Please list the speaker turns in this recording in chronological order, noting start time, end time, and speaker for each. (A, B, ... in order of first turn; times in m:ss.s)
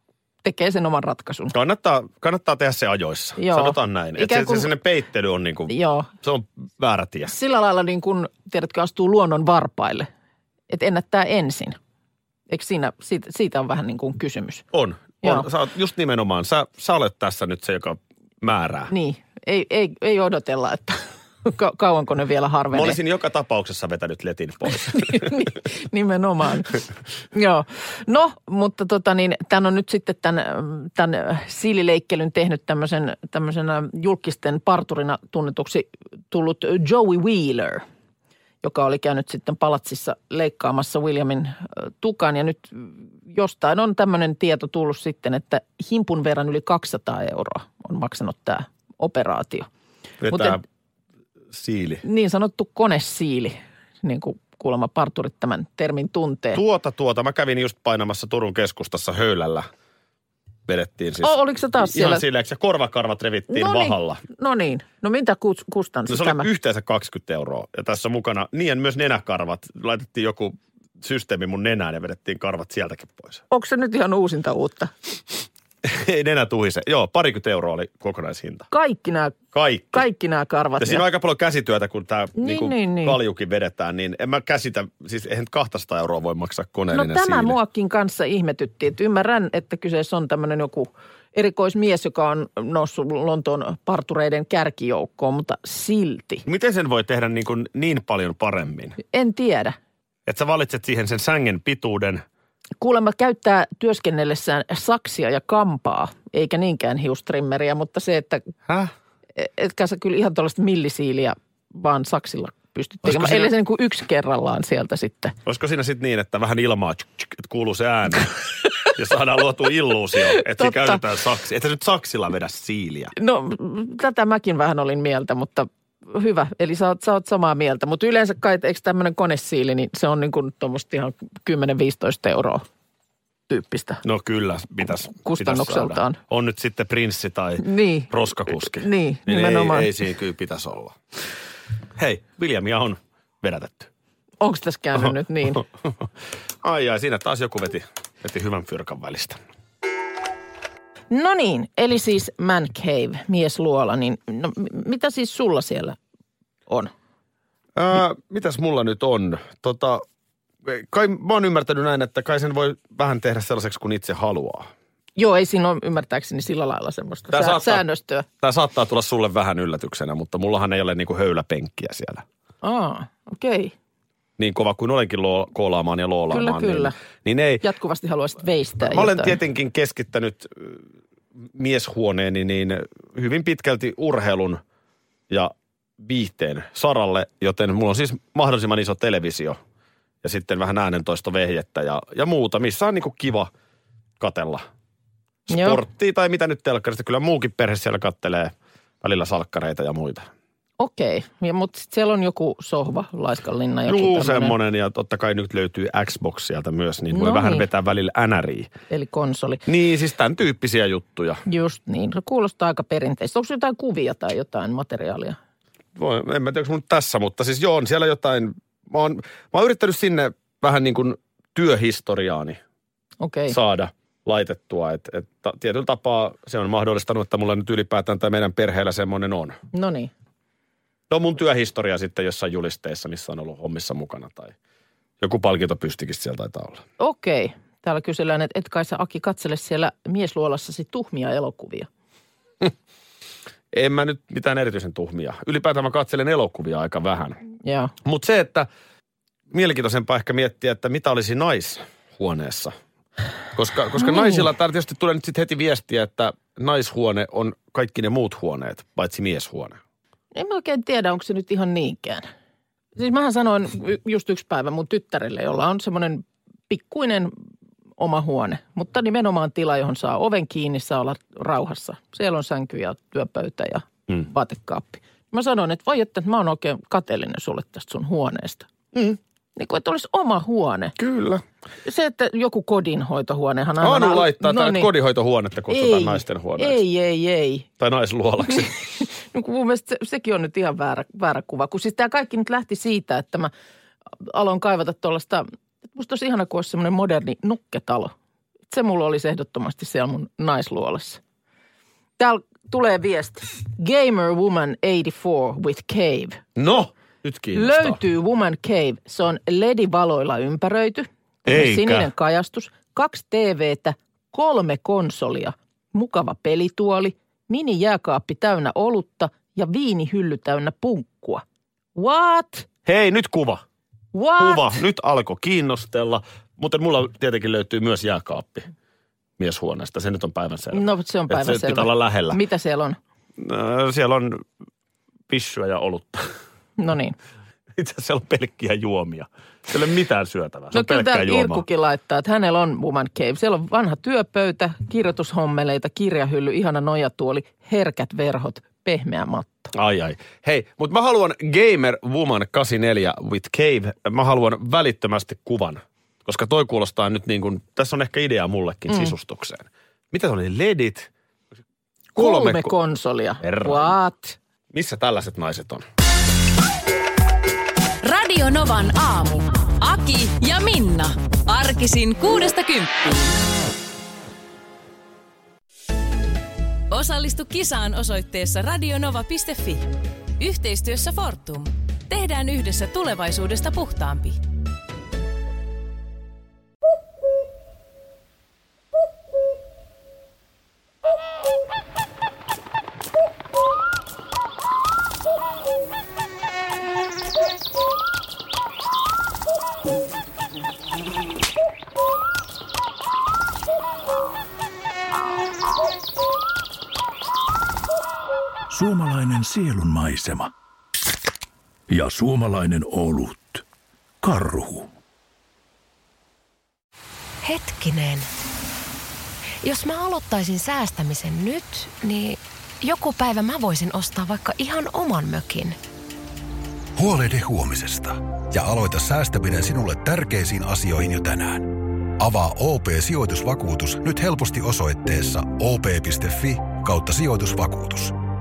0:00.4-0:01.6 A
0:01.5-0:07.3 B
0:03.4-0:04.7 A
0:05.7-0:06.1 A
0:07.3-0:10.1 A
0:10.7-0:11.8 A
0:12.5-0:14.6 A
0:14.7-0:18.9 B
0:15.2-0:15.5 A
0:18.9-0:23.0 A
0:22.7-0:25.4 B
0:24.9-0:37.8 A
0:38.6-0:49.7 A
0:50.2-0:50.6 B
0:50.3-0:50.6 A
0:51.5-0:52.0 B
0:52.0-0:56.6 A
0:56.5-0:59.7 B
1:00.7-1:04.2 B
1:01.2-1:02.2 A
1:03.5-1:06.5 A
1:06.1-1:13.4 B
1:13.5-1:14.9 A
1:15.8-1:18.7 B
1:18.7-1:19.4 A
1:19.5-1:20.0 B
1:19.9-1:21.0 A
1:20.8-1:27.6 B
1:22.4-1:23.2 A
1:26.9-1:36.4 A
1:36.4-1:39.0 B
1:39.1-1:39.8 A
1:40.3-1:42.2 B
1:42.8-1:48.4 A
1:48.7-1:48.9 B
1:49.4-1:55.4 A
1:53.0-1:53.5 B
1:55.4-2:03.1 B
2:00.4-2:01.0 A
2:03.2-2:12.6 A
2:13.5-2:14.0 A
2:14.0-2:21.0 B
2:15.1-2:16.2 A
2:17.6-2:19.9 A
2:22.0-2:23.9 B
2:24.4-2:25.6 A
2:25.0-2:25.6 B
2:26.6-2:29.4 B
2:31.1-2:36.0 A
2:37.8-2:40.0 B
2:40.6-2:44.7 B
2:45.2-2:48.3 A
2:47.3-2:47.8 B
2:48.4-2:52.2 B
2:52.6-2:53.7 A
2:54.4-2:57.6 B
2:56.3-2:57.0 A
2:57.6-2:59.4 A
2:58.8-3:00.8 B
3:01.4-3:04.6 B
3:05.3-3:09.6 B
3:10.2-3:13.5 B
3:14.2-3:14.6 B
3:15.5-3:20.3 B
3:15.5-3:15.8 A
3:20.8-3:24.6 A
3:23.9-3:28.7 B
3:27.1-3:27.6 A
3:28.9-3:29.6 A
3:29.7-3:31.4 B
3:31.5-3:35.4 A
3:36.0-3:42.6 B
3:43.2-3:43.6 A
3:43.5-3:49.6 B
3:49.7-3:50.1 A
3:51.1-3:54.6 B
3:55.2-3:56.8 B
3:57.0-4:01.9 A
4:03.7-4:07.4 B
4:07.6-4:07.9 A
4:08.0-4:08.7 B
4:09.5-4:12.8 B
4:13.5-4:19.8 B
4:14.0-4:14.4 A
4:20.4-4:22.3 A
4:23.0-4:27.3 A
4:28.0-4:38.7 A
4:39.6-4:41.0 A
4:41.0-4:41.4 B
4:41.8-4:44.9 A
4:43.8-4:46.8 B
4:45.7-4:47.7 A
4:47.8-4:48.7 B
4:48.5-4:53.5 A
4:54.2-4:58.1 A
4:58.7-5:01.2 A
5:02.2-5:06.4 A
5:06.6-5:08.0 B
5:07.5-5:21.4 A
5:11.5-5:12.1 B
5:22.0-5:22.7 A
5:22.8-5:23.6 B
5:24.1-5:24.8 A
5:24.4-5:28.7 B
5:29.4-5:32.4 B
5:30.7-5:33.0 A
5:33.4-5:34.4 B
5:35.3-5:36.3 B
5:36.8-5:37.2 A
5:37.8-5:41.6 B
5:40.7-5:49.7 A
5:49.7-6:01.1 B
6:02.2-6:02.8 B
6:02.2-6:04.4 A
6:03.4-6:04.0 B
6:04.7-6:05.8 B
6:08.0-6:13.3 C
6:16.9-6:24.4 C
6:48.7-6:50.5 D
6:51.9-6:53.6 D
6:54.2-6:54.9 D
6:57.4-6:58.3 E
6:59.6-7:05.8 E
7:07.0-7:18.2 F